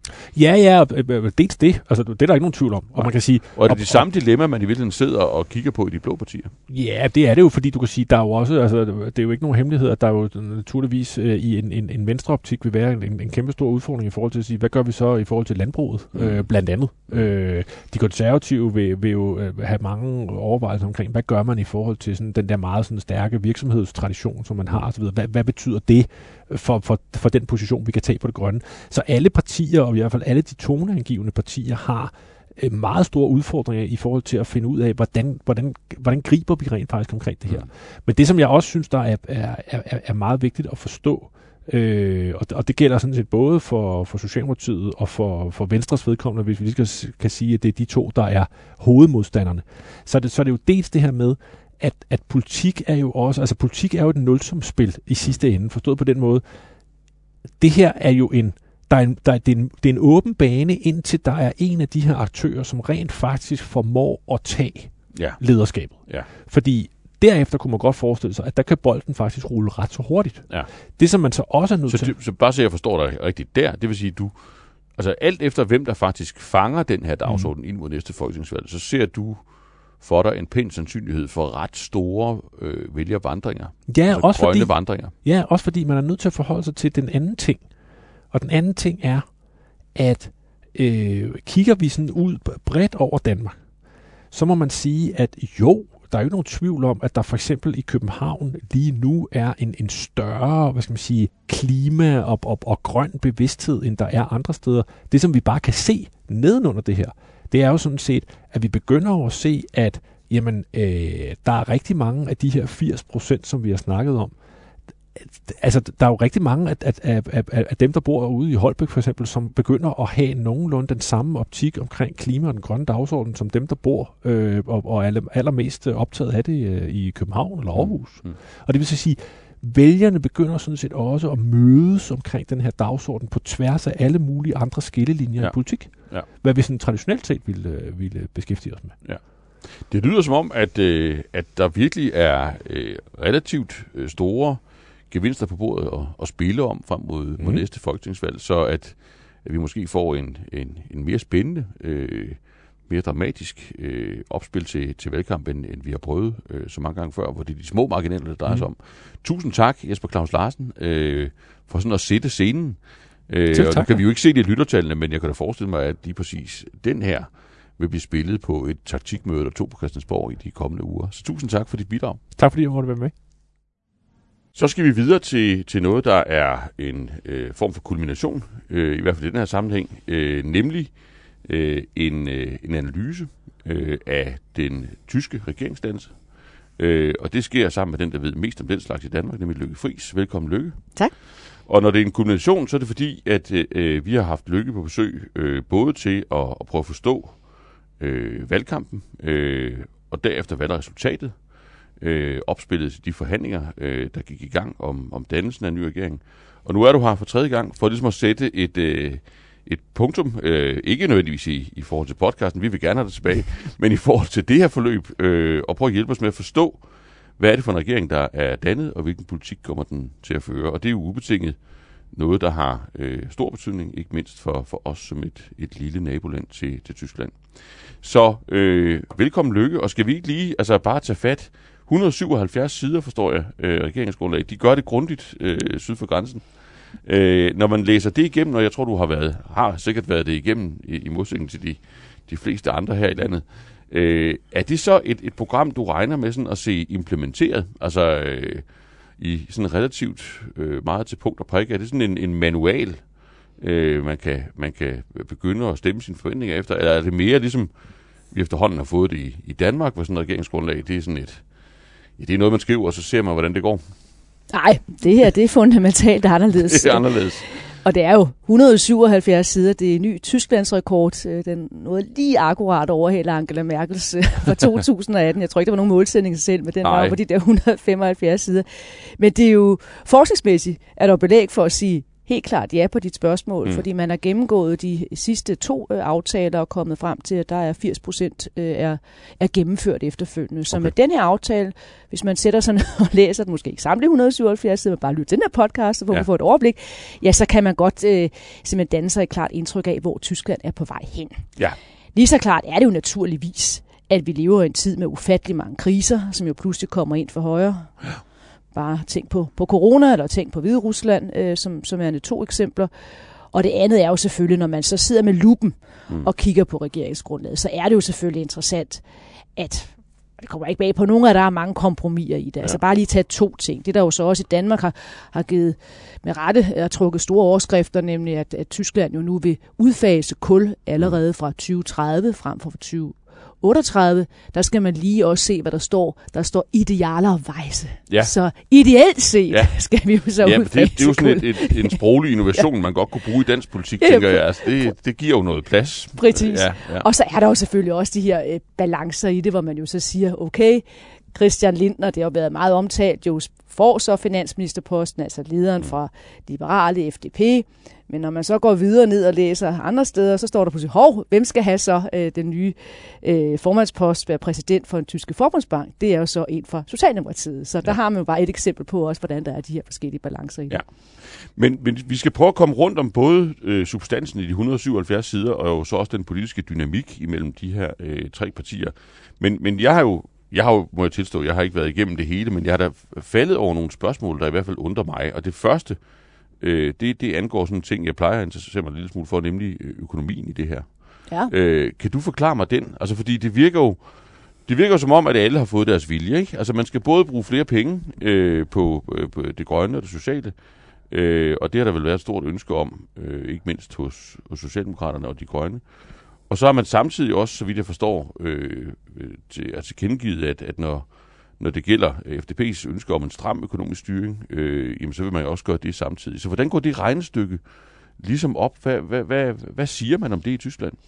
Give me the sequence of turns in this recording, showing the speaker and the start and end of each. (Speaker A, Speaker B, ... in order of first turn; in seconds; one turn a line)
Speaker A: 0.3-4.0
Speaker B: 3.0-6.5
Speaker A: 6.7-56.4
Speaker B: 16.1-16.5
Speaker A: 57.6-72.1
Speaker B: 65.1-65.4
Speaker B: 71.9-85.1
Speaker A: 83.9-87.7
Speaker A: 88.3-89.3
Speaker A: 89.9-93.6
Speaker A: 94.3-114.3
Speaker A: 115.2-138.9
Speaker B: 127.7-128.4
Speaker B: 135.4-136.3
Speaker B: 139.0-172.2
Speaker A: 147.4-147.6
Speaker A: 163.5-164.0
Speaker A: 172.4-173.1
Speaker B: 174.5-197.4
Speaker B: 198.0-216.8
Speaker B: 217.4-221.6
Speaker B: 222.1-248.7
Speaker B: 249.2-257.7
Speaker B: 258.3-261.4
Speaker B: 262.2-263.8
Speaker C: 264.5-301.4
Speaker B: 266.5-267.5
Speaker B: 276.8-277.2
Speaker C: 302.1-308.0
Speaker C: 308.7-312.9
Speaker C: 313.5-319.0
Speaker C: 319.6-342.0
Speaker B: 340.4-347.1
Speaker C: 344.0-344.9
Speaker C: 346.1-370.8
Speaker B: 370.7-386.0
Speaker B: 386.6-394.0
Speaker B: 394.6-400.5
Speaker B: 401.1-405.8
Speaker B: 406.4-417.6
Speaker B: 418.2-421.0